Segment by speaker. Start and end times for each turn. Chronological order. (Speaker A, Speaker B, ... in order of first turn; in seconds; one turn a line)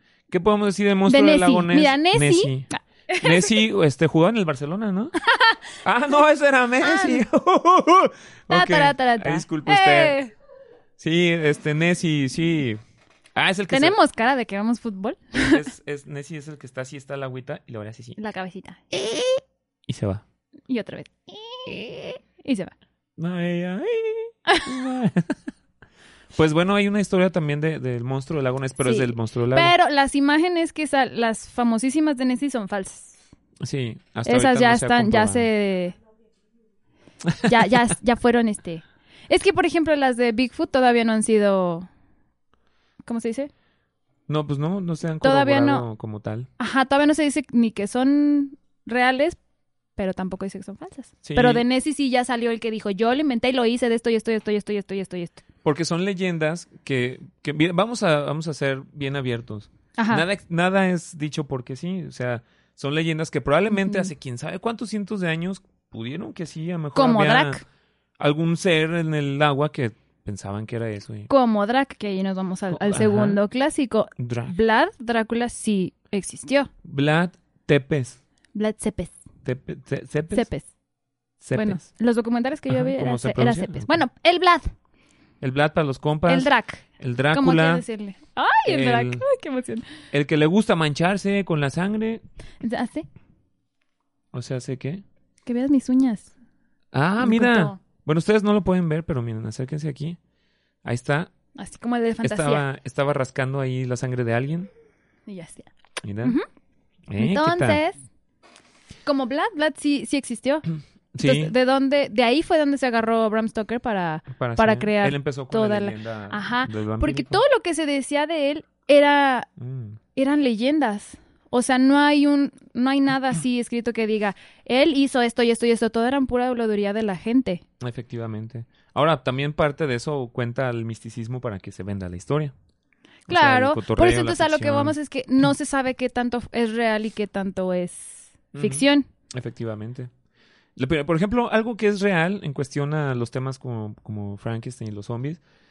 Speaker A: 0.3-5.1
Speaker B: 1.1-3.5
Speaker B: 5.3-5.6
Speaker A: 5.8-10.2
Speaker B: 6.8-7.2
Speaker B: 8.5-10.3
Speaker A: 11.0-12.8
Speaker A: 13.3-14.0
Speaker B: 13.7-15.6
Speaker A: 15.3-18.2
Speaker B: 18.2-19.0
Speaker A: 19.9-20.2
Speaker B: 20.7-22.7
Speaker A: 23.2-25.4
Speaker A: 26.3-29.7
Speaker B: 28.8-33.2
Speaker A: 33.6-35.5
Speaker B: 34.2-35.9
Speaker B: 37.4-41.9
Speaker B: 43.0-43.5
Speaker A: 44.3-46.5
Speaker B: 45.2-45.9
Speaker B: 46.6-49.4
Speaker B: 50.0-55.4
Speaker A: 51.2-51.6
Speaker A: 55.6-67.6
Speaker B: 60.0-60.2
Speaker B: 63.7-64.1
Speaker B: 66.9-67.6
Speaker A: 68.2-71.3
Speaker B: 71.3-76.7
Speaker A: 72.7-73.4
Speaker A: 74.2-74.5
Speaker A: 76.8-78.2
Speaker B: 78.5-79.1
Speaker A: 79.4-80.5
Speaker B: 80.3-80.7
Speaker A: 81.4-81.8
Speaker B: 81.5-84.7
Speaker A: 82.7-84.0
Speaker A: 85.4-87.8
Speaker B: 86.3-89.9
Speaker A: 88.7-89.2
Speaker A: 90.1-92.2
Speaker B: 92.6-93.1
Speaker A: 94.3-95.0
Speaker B: 95.5-96.3
Speaker A: 96.9-100.2
Speaker B: 97.2-97.8
Speaker A: 100.8-101.3
Speaker B: 101.5-102.6
Speaker A: 102.2-104.7
Speaker B: 105.3-105.7
Speaker A: 106.0-106.4
Speaker A: 107.1-107.8
Speaker B: 107.2-108.0
Speaker B: 109.0-110.7
Speaker A: 111.1-111.5
Speaker B: 111.2-119.5
Speaker A: 114.3-117.4
Speaker A: 119.6-120.0
Speaker B: 120.1-127.6
Speaker A: 127.8-132.5
Speaker A: 133.3-134.9
Speaker B: 133.3-139.1
Speaker A: 138.5-140.1
Speaker A: 140.8-145.4